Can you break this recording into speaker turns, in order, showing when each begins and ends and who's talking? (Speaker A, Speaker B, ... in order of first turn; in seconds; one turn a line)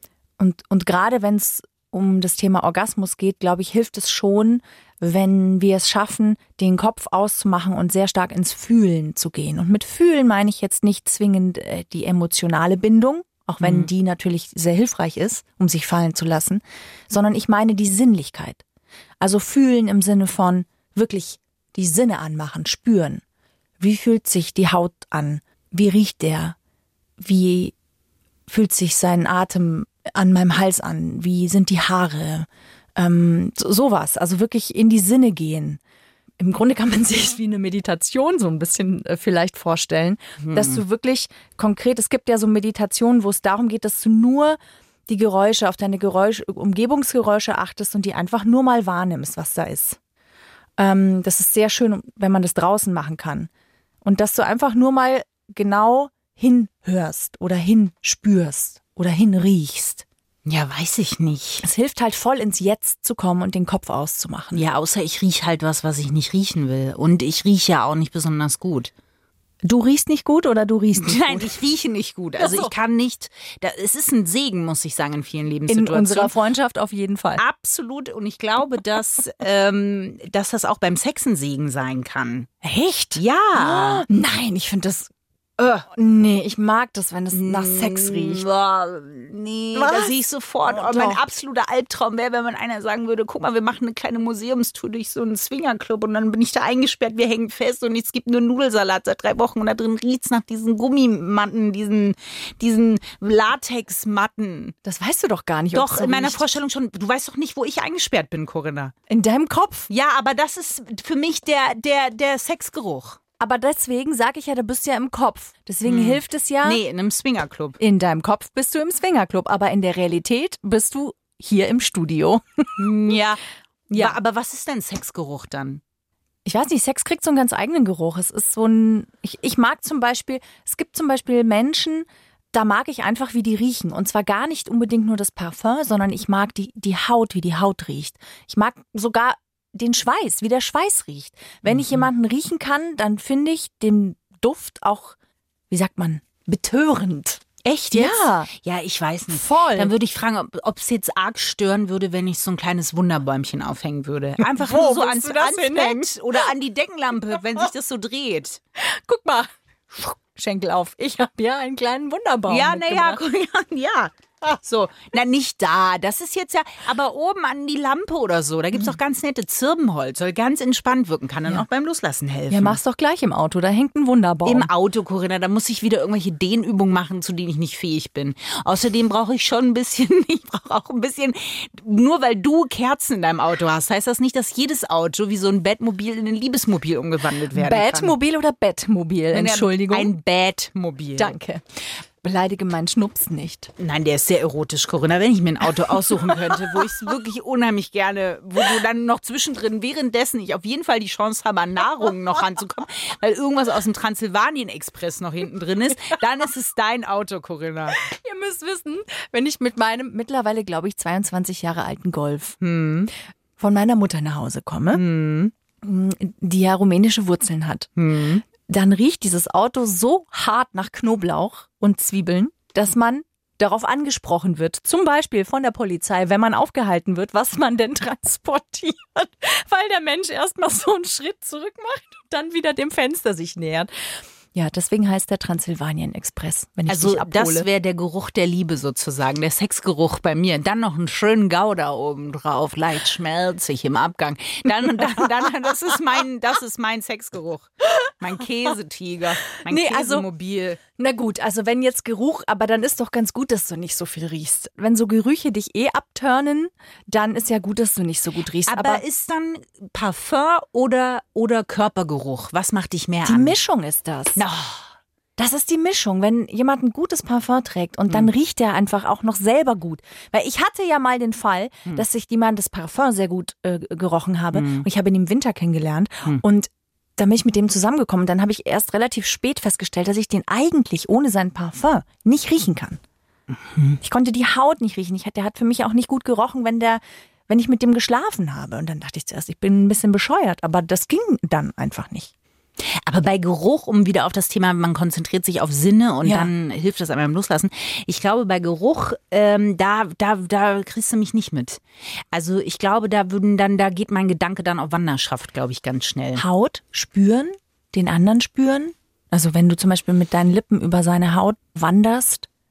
Speaker A: 0.4-18.6
Speaker B: 13.6-13.9
Speaker A: 19.2-23.2
Speaker A: 23.8-26.6
Speaker A: 27.2-27.7
Speaker A: 28.5-35.8
Speaker A: 36.4-50.0
Speaker B: 40.4-40.8
Speaker A: 50.8-53.5
Speaker A: 54.0-60.0
Speaker B: 60.4-61.6
Speaker A: 61.6-64.6
Speaker B: 64.5-68.9
Speaker A: 69.6-71.5
Speaker B: 71.0-76.3
Speaker A: 72.4-72.7
Speaker A: 75.7-77.4
Speaker B: 77.4-82.5
Speaker A: 82.6-88.4
Speaker B: 83.2-84.0
Speaker B: 87.3-104.8
Speaker A: 89.7-90.1
Speaker A: 90.7-91.2
Speaker A: 104.8-106.4
Speaker B: 105.7-108.9
Speaker A: 109.1-109.9
Speaker B: 109.9-113.2
Speaker A: 113.4-116.8
Speaker B: 115.8-117.8
Speaker A: 117.8-122.8
Speaker B: 122.8-123.4
Speaker A: 123.9-124.2
Speaker B: 123.9-125.8
Speaker A: 126.5-145.2
Speaker B: 141.7-142.1
Speaker A: 145.7-148.5
Speaker B: 147.6-158.6
Speaker A: 149.3-149.9
Speaker A: 154.4-156.1
Speaker A: 158.8-163.2
Speaker B: 162.5-172.8
Speaker A: 172.5-174.7
Speaker B: 174.4-188.1
Speaker A: 187.5-190.1
Speaker B: 189.3-191.3
Speaker A: 191.2-193.7
Speaker B: 193.8-208.0
Speaker A: 208.0-212.6
Speaker B: 212.6-213.1
Speaker A: 213.6-215.0
Speaker B: 214.9-215.5
Speaker A: 215.8-217.9
Speaker B: 218.0-218.4
Speaker A: 218.5-233.9
Speaker A: 234.5-237.7
Speaker B: 236.9-250.8
Speaker A: 249.6-250.2
Speaker A: 251.0-259.0
Speaker B: 258.6-263.6
Speaker A: 263.2-264.4
Speaker B: 264.4-264.9
Speaker A: 265.4-283.0
Speaker B: 274.5-274.9
Speaker B: 283.5-284.0
Speaker A: 284.0-292.3
Speaker B: 293.0-306.4
Speaker A: 296.2-296.5
Speaker A: 306.4-312.5